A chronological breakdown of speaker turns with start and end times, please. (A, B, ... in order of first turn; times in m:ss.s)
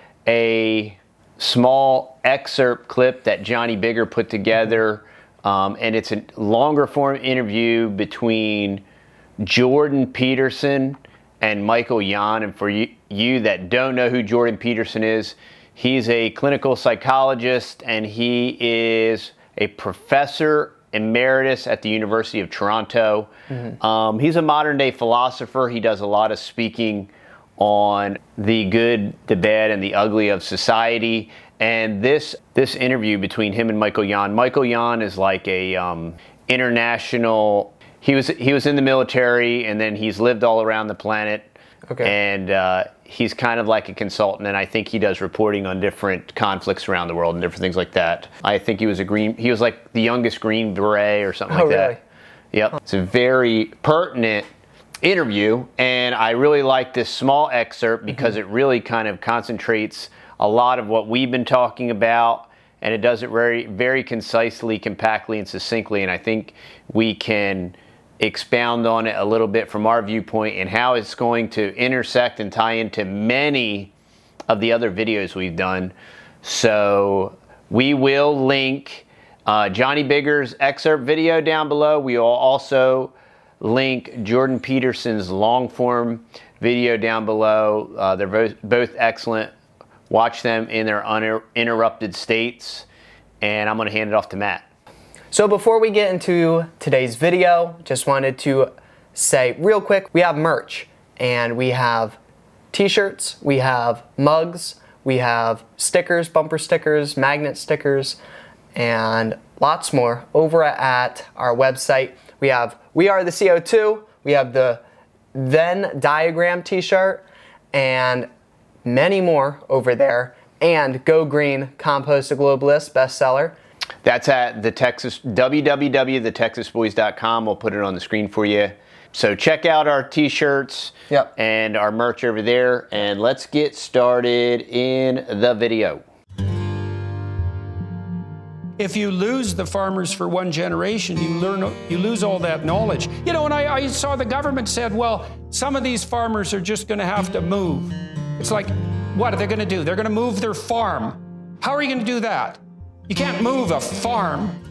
0:00.2-0:08.8 A
0:09.4-0:41.5 A
0:41.9-0:42.1 B
0:42.0-0:52.0 A
0:51.5-0:52.0 B
0:52.5-0:54.5 A
0:55.0-1:13.9 A
1:14.5-1:29.5 A
1:30.1-1:32.8 A
1:33.4-1:34.6 A
1:35.3-1:42.2 B
1:42.7-1:48.2 B
1:48.7-1:54.8 B
1:55.3-1:58.3 B
1:58.8-2:03.6 B
2:04.0-2:16.0 A
2:18.8-2:34.6 C